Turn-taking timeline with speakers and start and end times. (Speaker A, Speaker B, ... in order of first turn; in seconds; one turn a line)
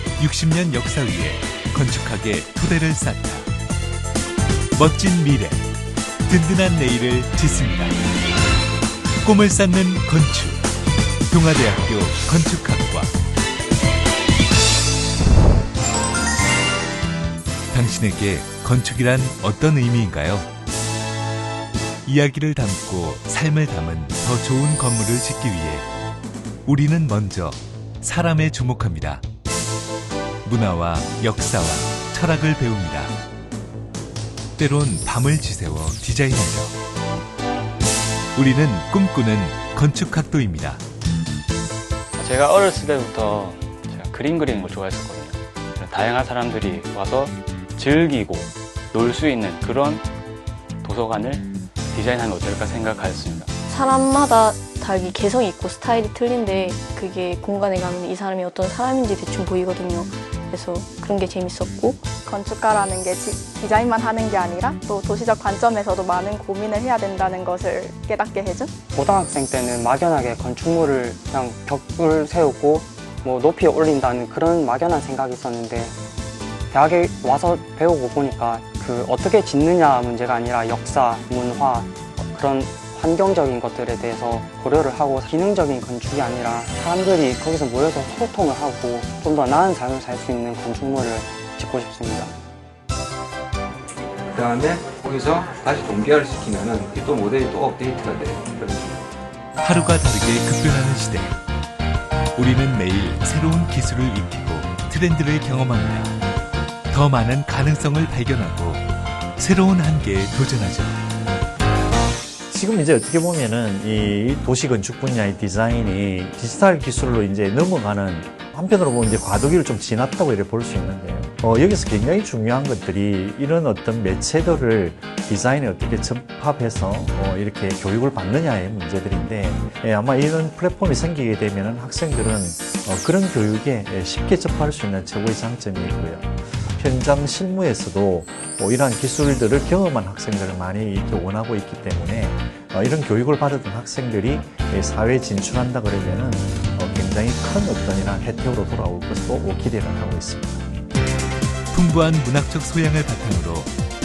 Speaker A: 0.2-3.5
Speaker A: 4.7-5.6
Speaker A: 6.2-8.0
Speaker A: 9.2-10.6
Speaker A: 11.3-13.1
Speaker A: 17.7-20.5
Speaker A: 22.0-25.9
Speaker A: 26.6-29.2
Speaker A: 30.4-33.1
Speaker A: 34.6-36.7
Speaker A: 38.3-40.8
Speaker B: 42.1-50.1
Speaker B: 50.8-53.5
Speaker C: 53.6-62.1
Speaker D: 62.2-68.7
Speaker E: 68.9-75.9
Speaker E: 76.7-92.3
Speaker F: 94.3-99.0
Speaker A: 99.6-101.4
Speaker A: 102.3-106.2
Speaker A: 106.9-111.0
Speaker G: 112.5-150.7
Speaker A: 151.7-153.7